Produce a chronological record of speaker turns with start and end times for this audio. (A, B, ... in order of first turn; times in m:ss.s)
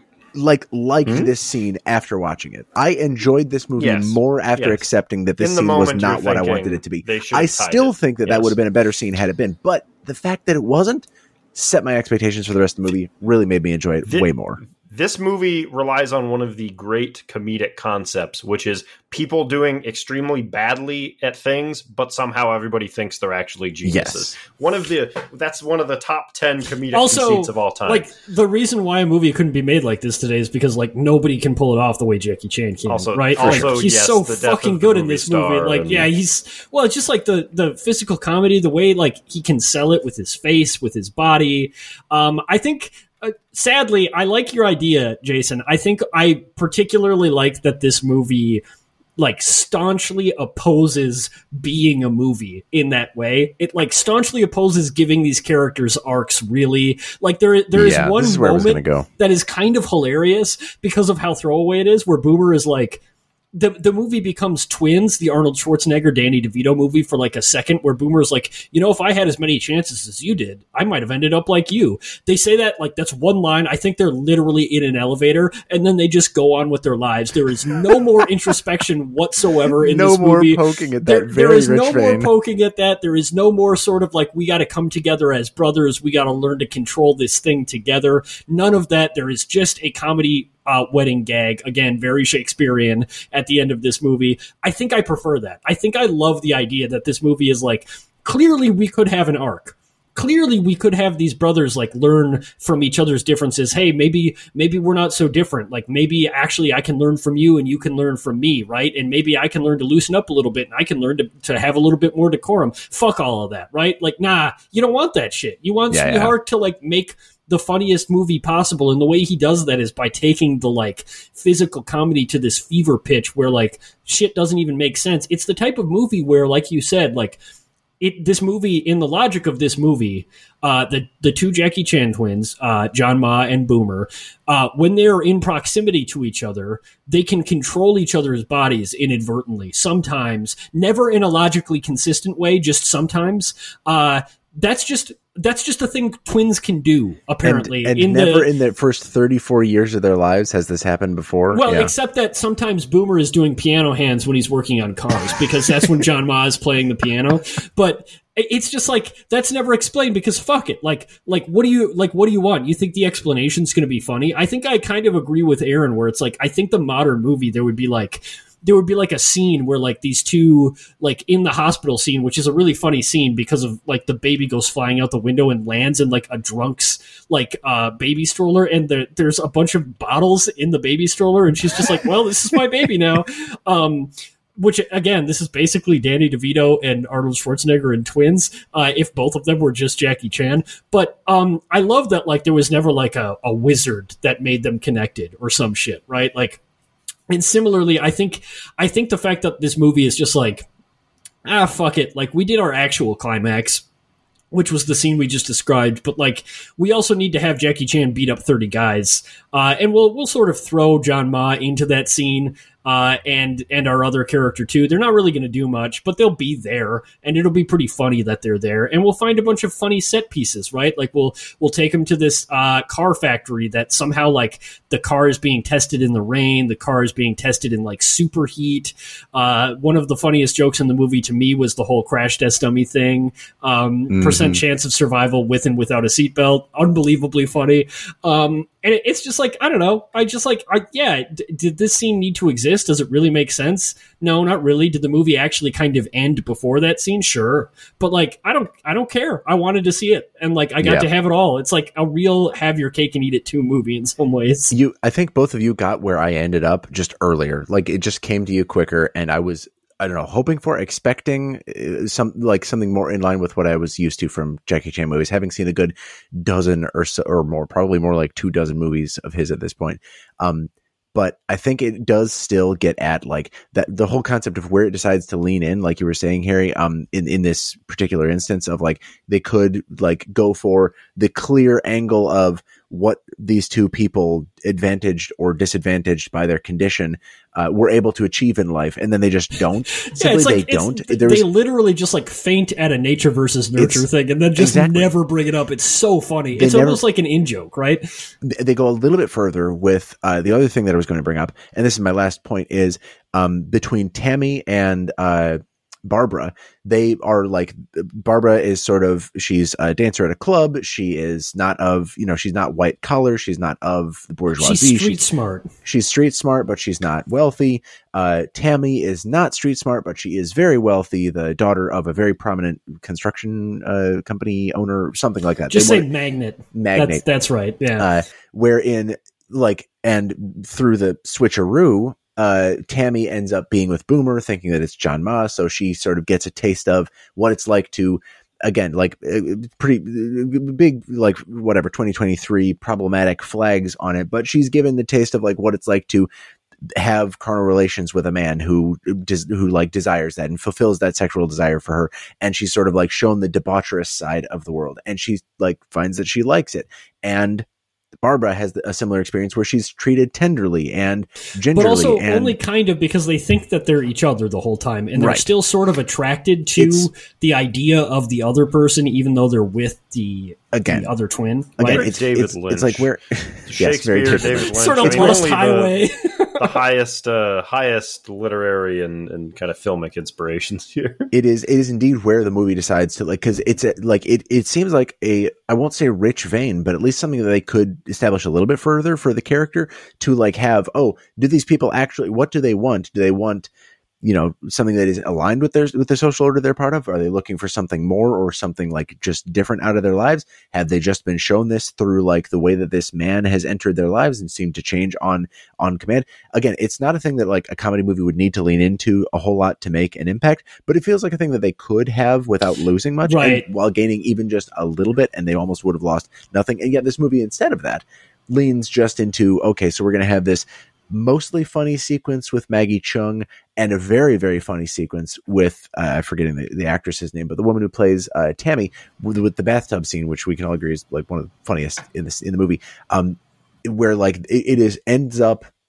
0:00.3-0:14.6 A
0:01.0-0:01.3 B
0:03.8-0:04.8 B
0:05.4-0:08.6 B
0:14.1-0:28.1 B
0:23.8-0:24.4 A
0:26.9-0:48.6 C
0:32.9-0:36.1 B
0:33.4-0:33.8 A
0:49.2-1:03.0 C
0:57.7-0:59.0 A
1:03.5-2:07.4 C
1:19.7-1:22.3 A
1:55.9-1:56.4 A
2:08.0-2:28.5 C
2:27.4-2:31.9 A
2:31.5-3:16.6 C
3:17.3-3:20.7 C
3:21.4-3:23.8 C
3:24.5-4:14.7 C
3:54.1-3:54.6 A
4:10.8-4:11.1 A
4:14.7-4:51.5 A
4:50.0-4:58.3 C
4:53.8-4:55.1 A
4:56.5-4:57.0 A
4:58.4-5:15.2 A
5:14.6-5:15.7 C
5:15.8-5:26.1 A
5:25.7-5:28.1 C
5:26.7-5:27.2 A
5:28.0-5:46.3 A
5:46.9-5:57.7 A
5:58.2-6:02.6 A
6:01.7-6:12.0 C
6:05.1-6:05.5 A
6:06.8-6:07.1 A
6:10.7-6:11.1 A
6:11.8-6:15.4 A
6:11.8-6:13.1 B
6:13.7-6:15.9 B
6:14.7-6:16.7 C
6:16.6-6:21.3 B
6:21.3-6:33.7 A
6:34.2-7:15.7 A
6:53.2-6:53.6 C